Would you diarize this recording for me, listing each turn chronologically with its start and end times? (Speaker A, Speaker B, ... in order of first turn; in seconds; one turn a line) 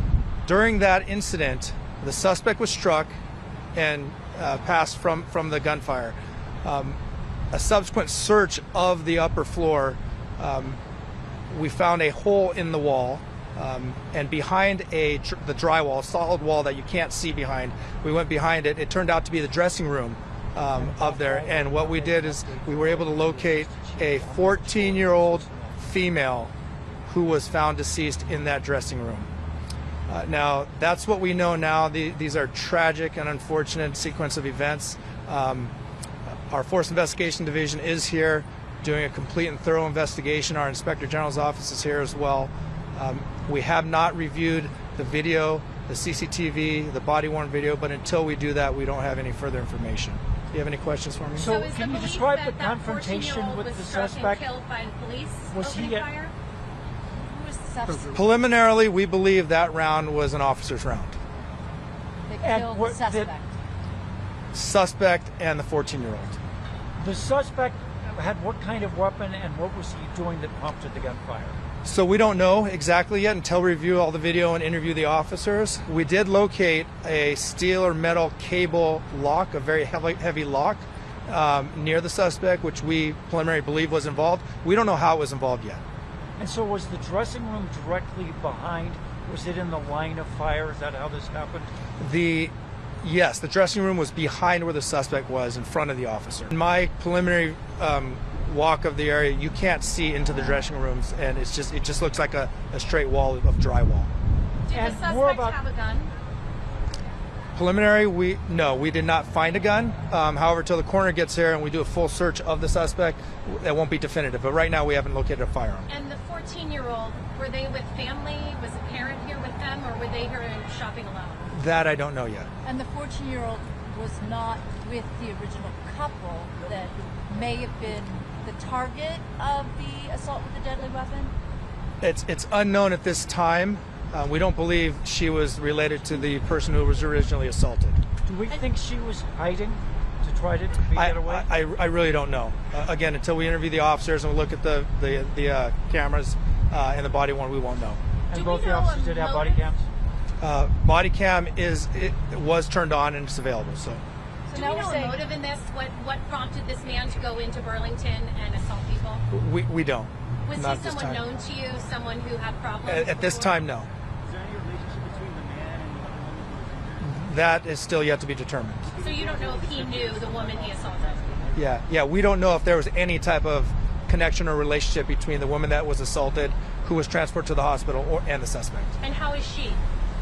Speaker A: 0.4-3.1
Speaker A: 3.7-7.0
Speaker A: 7.5-10.8
Speaker A: 11.5-26.5
Speaker B: 20.7-25.8
Speaker A: 27.1-29.3
Speaker A: 30.1-35.7
Speaker A: 36.5-51.5
Speaker B: 51.3-54.5
Speaker C: 51.4-56.3
Speaker B: 55.5-56.1
Speaker D: 57.1-58.2
Speaker A: 58.1-61.2
Speaker D: 62.3-63.5
Speaker B: 62.4-63.3
Speaker A: 64.5-66.4
Speaker B: 67.0-71.6
Speaker A: 71.8-85.8
Speaker B: 86.4-91.7
Speaker A: 92.0-104.1
Speaker C: 104.7-106.1
Speaker B: 104.7-105.6
Speaker A: 107.5-115.9
Speaker C: 115.9-121.5
Speaker A: 121.5-122.5
Speaker D: 122.6-131.3
Speaker E: 127.0-128.0
Speaker A: 132.0-138.0
Speaker B: 138.2-141.5
Speaker A: 140.9-148.0
Speaker B: 148.3-149.9
Speaker C: 148.3-149.7
Speaker A: 150.4-154.0
Speaker D: 154.5-155.2
Speaker C: 154.5-159.2
Speaker A: 159.3-161.2
Speaker C: 160.4-163.7
Speaker A: 162.8-163.9
Speaker E: 164.2-167.2
Speaker A: 167.0-168.9
Speaker E: 168.9-171.7
Speaker C: 169.0-171.5
Speaker A: 171.5-179.0
Speaker C: 179.0-179.8